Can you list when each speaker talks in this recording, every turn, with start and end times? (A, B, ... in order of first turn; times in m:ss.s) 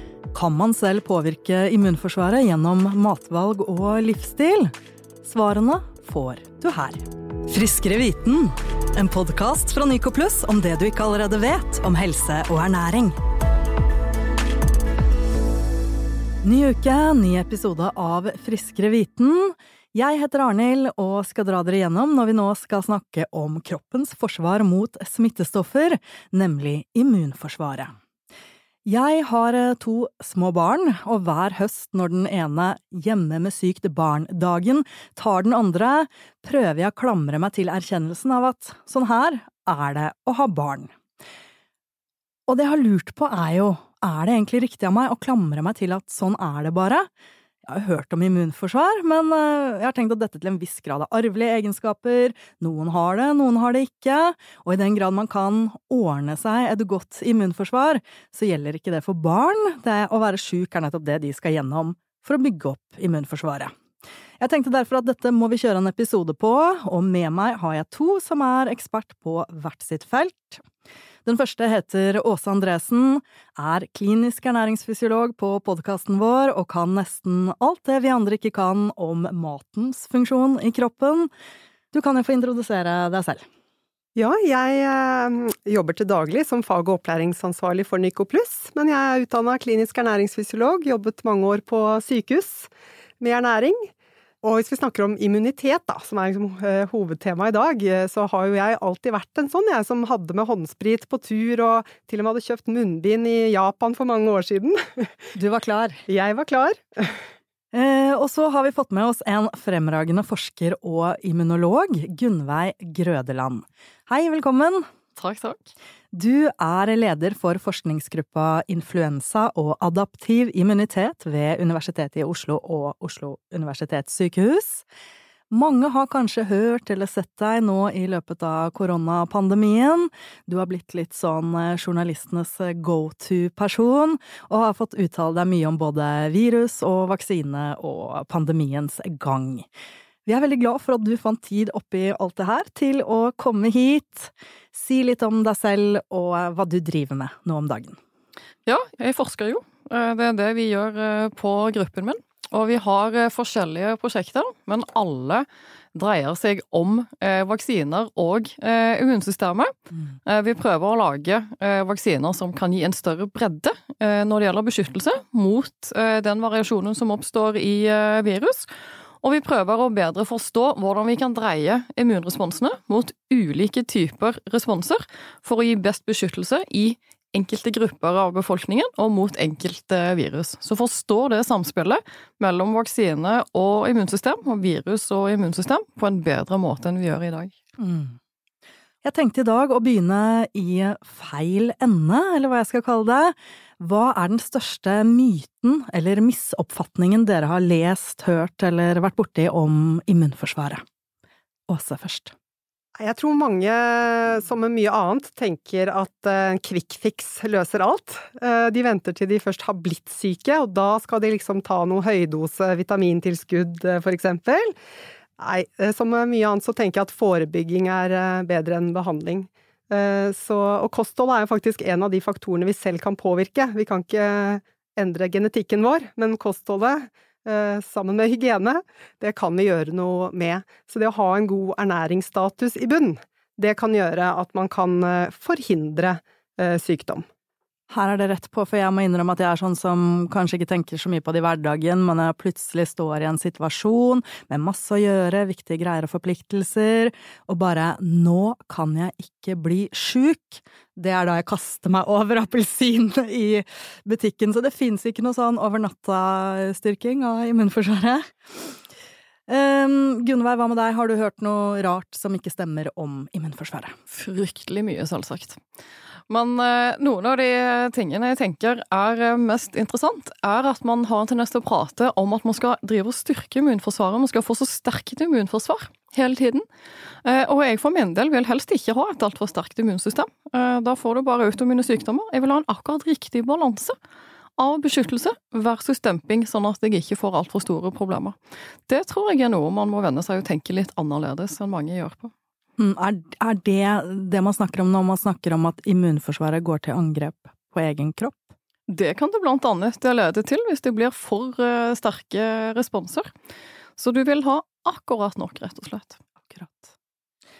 0:00.3-0:13.2 A
0:16.4-0:27.9 A
0:28.8-0:40.9 A
0:42.5-0:47.1 A
0:47.6-1:03.7 A
1:04.4-1:10.6 A
1:11.2-1:21.3 A
1:21.9-1:23.4 A
1:24.2-1:33.9 B
1:34.4-1:45.3 B
1:45.3-1:46.0 A
1:46.1-1:47.2 B
1:47.7-1:54.9 A
1:55.2-1:55.6 C
1:56.1-2:04.8 A
2:05.5-2:19.6 A
2:20.2-2:28.0 A
2:28.6-2:39.7 C
2:40.2-2:48.7 C
2:49.2-3:07.5 C
3:07.8-3:08.2 A
3:09.0-3:20.8 A
3:21.7-3:22.3 A
3:23.0-3:34.7 B
3:35.4-3:57.2 B
3:57.9-4:18.7 A
4:19.5-4:23.9 A
4:24.1-4:25.6 C
4:26.3-4:36.6 C
4:37.2-4:44.0 C
4:44.6-4:48.4 C
4:48.9-4:52.3 C
4:52.8-4:58.5 A
4:58.9-5:03.3 C
5:04.0-5:06.2 C
5:06.5-5:06.9 A